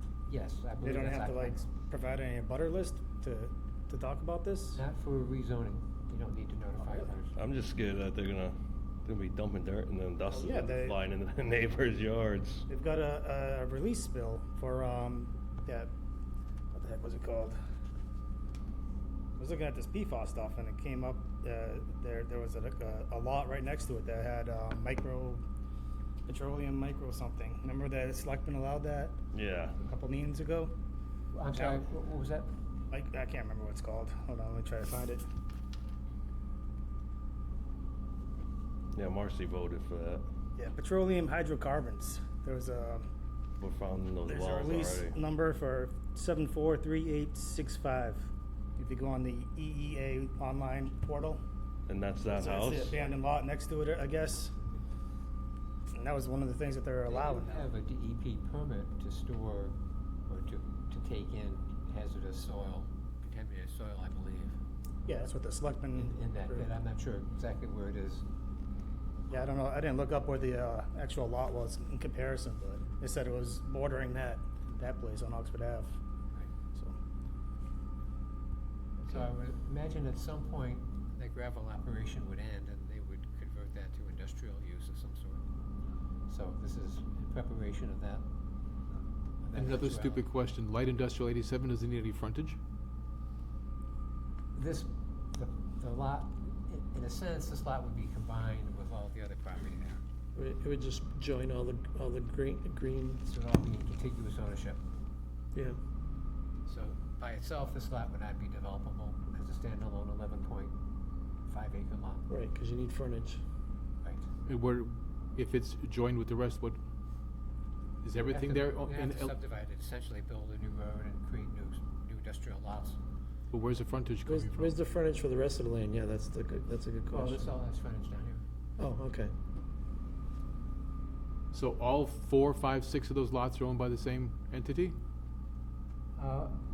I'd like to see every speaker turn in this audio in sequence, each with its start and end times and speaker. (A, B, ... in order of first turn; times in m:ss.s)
0:00.3-0:01.7 A
0:00.8-0:04.8 B
0:04.7-0:07.4 A
0:07.4-0:12.6 C
0:10.3-0:11.0 B
0:12.7-0:15.9 B
0:16.7-0:17.6 B
0:19.4-0:25.4 B
0:26.2-0:29.2 B
0:29.3-0:29.8 C
0:29.8-0:30.7 B
0:31.3-0:32.5 A
0:31.5-0:31.8 B
0:32.9-0:35.2 B
0:38.9-0:40.2 C
0:40.6-0:43.0 B
0:43.6-0:45.2 C
0:44.2-0:51.4 B
0:51.9-0:53.0 C
0:52.2-0:54.5 B
0:55.9-0:57.7 B
0:57.0-0:59.8 A
1:00.3-1:04.6 A
1:05.0-1:06.7 B
1:05.9-1:08.2 A
1:09.3-1:16.0 B
1:19.0-1:25.4 A
1:26.3-1:28.2 A
1:29.4-1:30.2 A
1:29.5-1:32.6 D
1:34.5-1:40.0 A
1:40.3-1:43.2 E
1:43.2-1:44.8 A
1:46.6-1:50.7 A
1:51.4-1:52.2 A
1:52.3-1:53.4 E
1:54.0-1:54.3 A
1:54.4-1:56.8 D
1:58.0-1:59.3 D
1:58.1-2:03.0 A
2:03.5-2:04.7 D
2:04.2-2:07.5 E
2:07.1-2:08.4 A
2:08.8-2:09.3 E
2:11.5-2:15.0 D
2:16.2-2:16.6 A